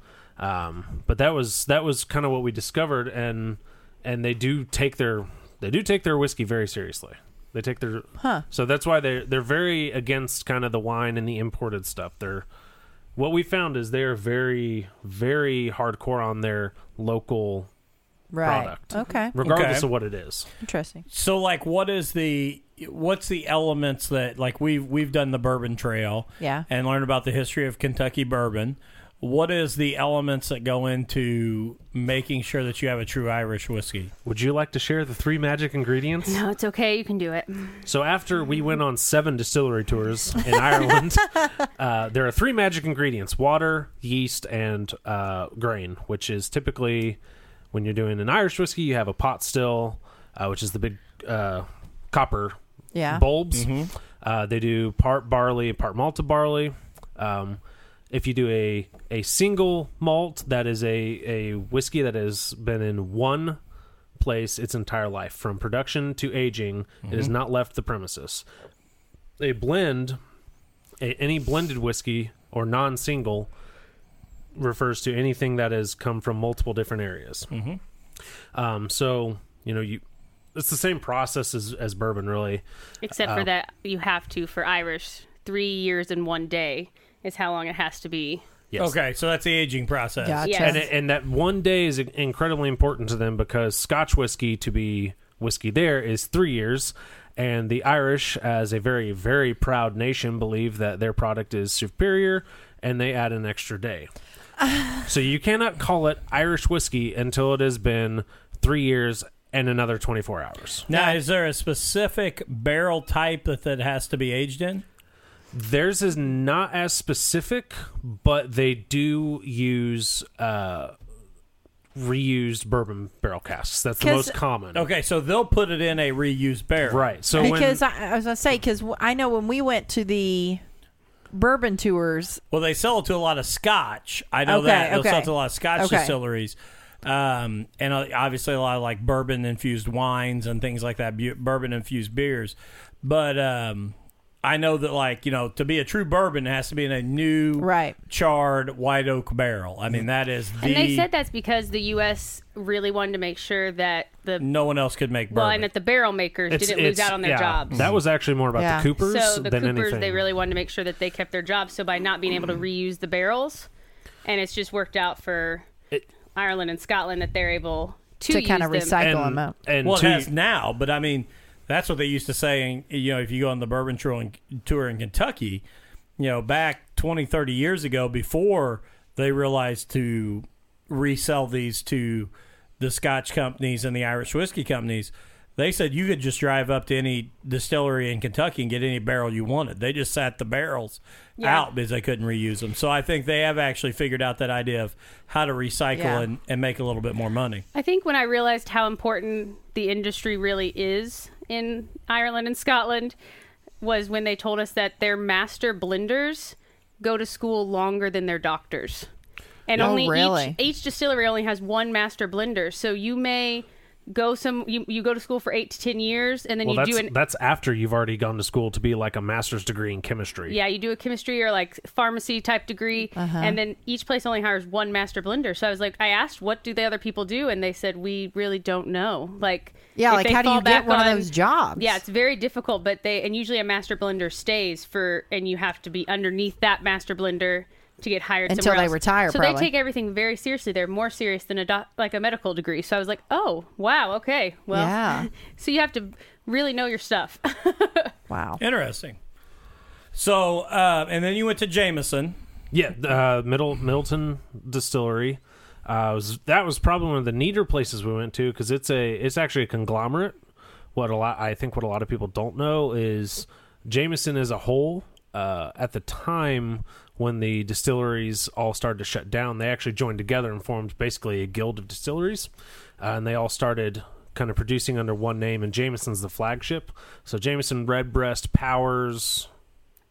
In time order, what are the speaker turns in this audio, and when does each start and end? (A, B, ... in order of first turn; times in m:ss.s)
0:00.4-0:12.4 A
0:08.2-0:08.4 B
0:13.2-0:17.7 A
0:18.3-0:19.4 B
0:18.4-0:20.5 A
0:19.4-0:19.9 C
0:20.6-0:21.0 B
0:21.1-0:34.1 C
0:34.2-0:36.4 A
0:36.3-0:37.8 D
0:37.8-0:47.2 A
0:47.7-0:52.6 A
0:52.9-0:53.2 B
0:53.1-0:57.6 A
0:53.5-0:53.9 C
0:58.1-1:03.6 A
1:04.2-1:08.4 A
1:09.4-1:10.2 A
1:11.0-1:13.5 A
1:14.5-1:17.5 A
1:17.5-1:17.8 C
1:18.5-1:20.0 A
1:20.5-1:22.6 A
1:23.0-1:28.4 D
1:23.2-1:23.5 A
1:28.8-1:30.5 C
1:30.2-1:30.9 B
1:30.4-1:30.8 D
1:30.6-1:44.1 A
1:45.0-1:50.9 A
1:50.9-1:54.8 C
1:50.9-1:51.2 B
1:55.5-2:00.9 A
2:01.9-2:04.8 A
2:04.0-2:04.4 B
2:04.7-2:07.6 C
2:06.8-2:07.8 A
2:07.4-2:10.6 B
2:11.3-2:12.4 B
2:12.5-2:31.0 C
2:14.4-2:16.1 B
2:27.6-2:28.0 B
2:30.6-2:34.4 D
2:34.4-2:35.6 C
2:35.3-2:37.8 D
2:36.5-2:40.2 A
2:38.5-2:38.9 B
2:39.0-2:43.7 D
2:44.2-2:45.7 D
2:46.3-2:49.0 D
2:48.3-2:49.5 B
2:49.0-2:50.3 A
2:49.8-2:55.6 C
2:56.2-3:17.6 C
3:11.4-3:11.7 D
3:15.9-3:16.2 B
3:17.7-3:23.1 D
3:23.8-3:29.1 D
3:29.7-3:37.1 D
3:29.8-3:30.6 B
3:36.6-3:40.6 A
3:40.5-4:08.1 D
3:43.1-3:43.6 B
3:50.0-3:52.0 B
3:58.5-3:59.7 B
4:04.7-4:05.3 B
4:08.3-4:08.6 B
4:08.6-4:09.2 C
4:10.1-4:12.4 C
4:12.7-4:20.3 A
4:20.9-4:39.5 A